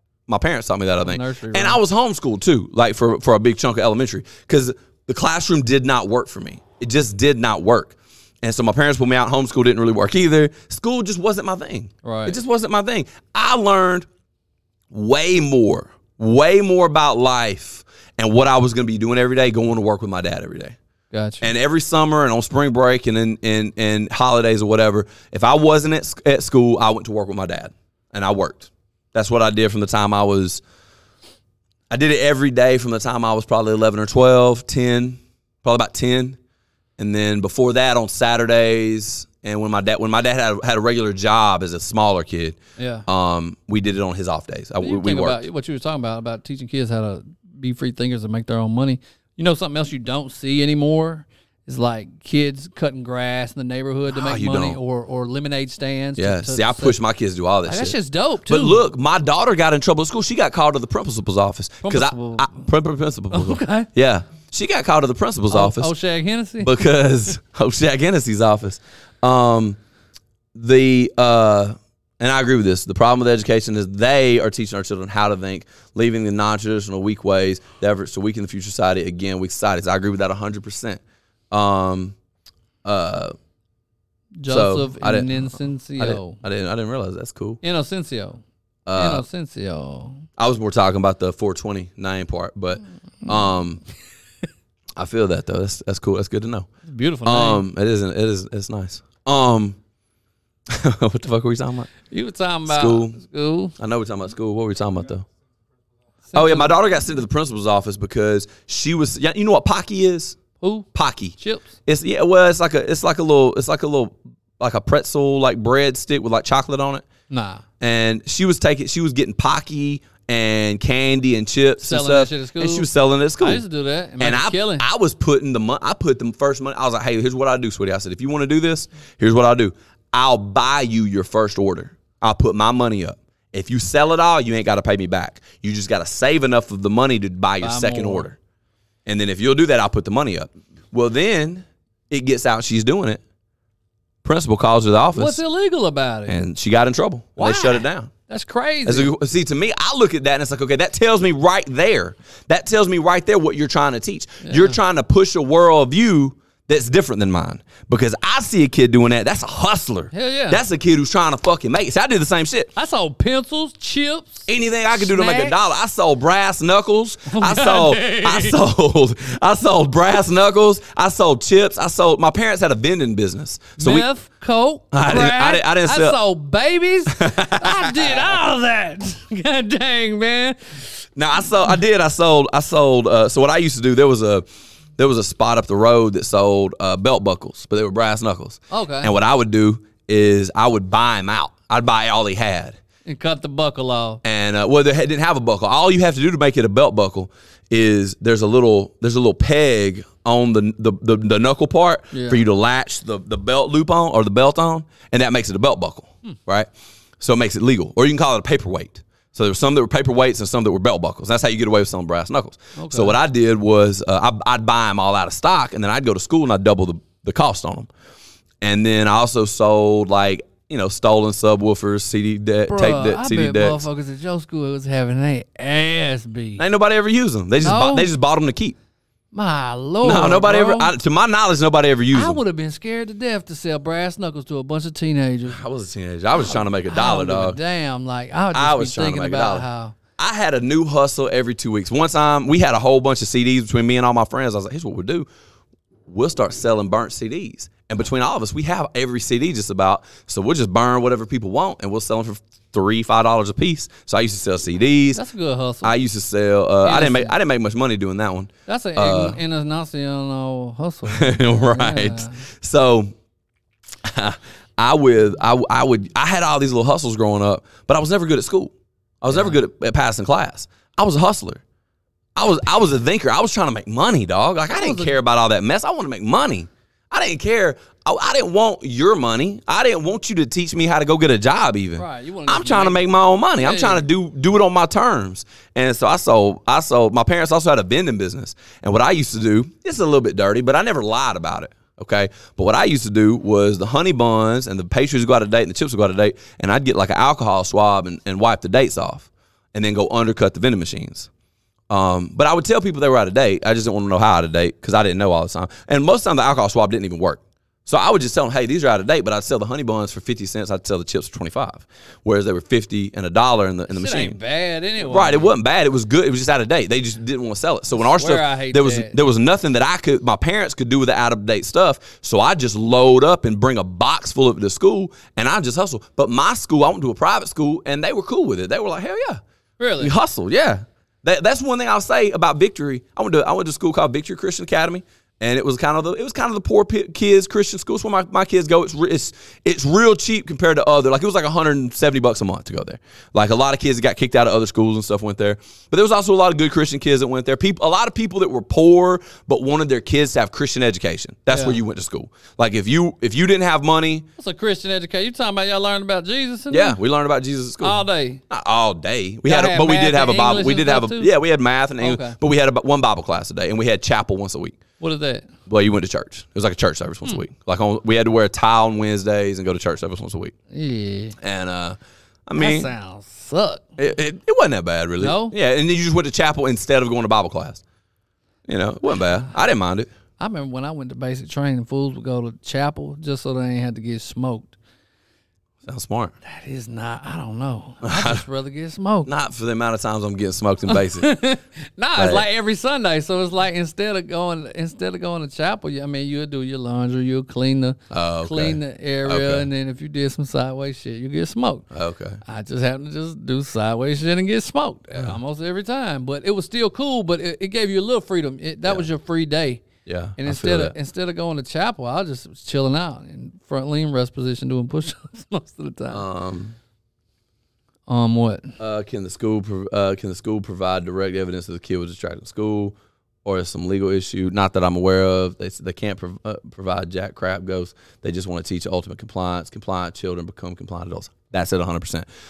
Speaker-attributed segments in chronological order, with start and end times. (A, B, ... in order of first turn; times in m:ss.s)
0:00.3-0:14.1 A
0:01.0-0:01.8 B
0:12.0-0:12.4 B
0:14.9-0:20.8 A
0:21.1-0:21.5 B
0:21.4-0:30.6 A
0:31.9-0:36.4 A
0:37.0-0:45.4 A
0:42.8-0:43.0 B
0:44.8-0:57.0 B
0:54.1-0:54.8 A
0:56.2-1:05.9 A
0:57.7-0:58.8 B
1:01.8-1:02.6 B
1:03.3-1:03.9 B
1:05.5-1:06.8 B
1:06.6-1:09.8 A
1:10.5-1:22.1 A
1:22.8-1:23.3 A
1:24.4-1:26.4 B
1:24.5-1:27.6 A
1:27.6-1:28.4 B
1:28.8-1:29.2 A
1:28.9-1:30.2 B
1:30.4-1:33.8 A
1:35.0-1:36.7 A
1:36.8-1:37.6 B
1:37.2-1:39.8 A
1:40.7-1:41.9 A
1:42.1-1:43.8 B
1:42.6-1:43.2 A
1:43.8-1:45.2 A
1:46.3-1:46.8 B
1:46.3-1:50.4 A
1:50.6-1:51.7 B
1:50.9-1:57.0 A
1:57.3-1:57.6 B
1:57.8-2:03.6 A
2:01.8-2:02.9 B
2:03.4-2:04.9 B
2:04.2-2:18.4 A
2:17.6-2:18.3 B
2:19.0-2:23.2 A
2:24.2-2:25.4 A
2:25.1-2:26.4 B
2:26.3-2:28.1 A
2:27.4-2:29.1 B
2:28.8-2:42.7 A
2:34.4-2:34.8 B
2:40.1-2:40.6 B
2:42.8-2:45.6 B
2:44.5-2:54.1 A
2:47.3-2:48.6 B
2:53.8-3:01.0 B
2:54.9-2:56.2 A
2:57.1-2:58.3 A
3:01.2-3:04.4 A
3:05.0-3:12.8 A
3:08.7-3:09.1 B
3:13.0-3:14.2 B
3:14.2-3:26.7 A
3:22.1-3:22.4 B
3:27.2-3:37.9 A
3:32.8-3:33.2 B
3:38.6-3:43.8 A
3:42.7-3:46.6 B
3:46.6-3:48.8 A
3:47.6-3:48.1 B
3:49.3-3:50.9 B
3:50.0-3:52.4 A
3:52.1-3:55.6 B
3:55.5-3:57.6 A
3:56.4-3:59.9 B
3:58.5-3:59.7 A
4:00.2-4:05.3 A
4:06.1-4:15.2 A
4:15.1-4:15.9 B
4:15.8-4:19.4 A
4:16.8-4:17.4 B
4:18.6-4:22.4 B
4:21.1-4:23.1 A
4:24.0-4:31.6 A
4:29.3-4:29.6 B
4:32.4-5:01.3 A
4:34.7-4:35.2 B
4:42.0-4:44.0 B
5:01.9-5:14.4 A
5:13.9-5:15.5 B
5:15.0-5:29.4 A
5:18.0-5:19.2 B
5:29.8-5:30.1 B
5:30.0-5:54.3 A
5:51.5-5:51.8 B
5:54.4-5:57.0 B
5:56.7-6:04.8 A
5:57.8-5:58.4 B
5:59.4-6:01.3 B
6:02.0-6:02.4 B
6:05.0-6:05.5 B
6:05.7-6:10.5 A
6:10.7-6:11.4 B
6:11.4-6:12.9 A
6:12.6-6:13.8 B
6:14.0-6:17.8 A
6:15.2-6:15.6 B
6:18.7-6:20.1 A
6:20.4-6:24.7 B
6:25.8-6:26.3 A
6:26.4-6:29.3 B
6:28.0-6:28.4 A
6:29.2-6:31.3 A
6:30.9-6:41.8 B
6:32.2-6:32.4 A
6:38.1-6:39.7 A
6:41.9-6:42.4 A
6:42.4-6:49.8 B
6:50.0-6:50.9 A
6:50.4-6:56.2 B
6:56.1-6:56.8 A
6:58.1-6:58.7 B
6:58.8-7:12.2 A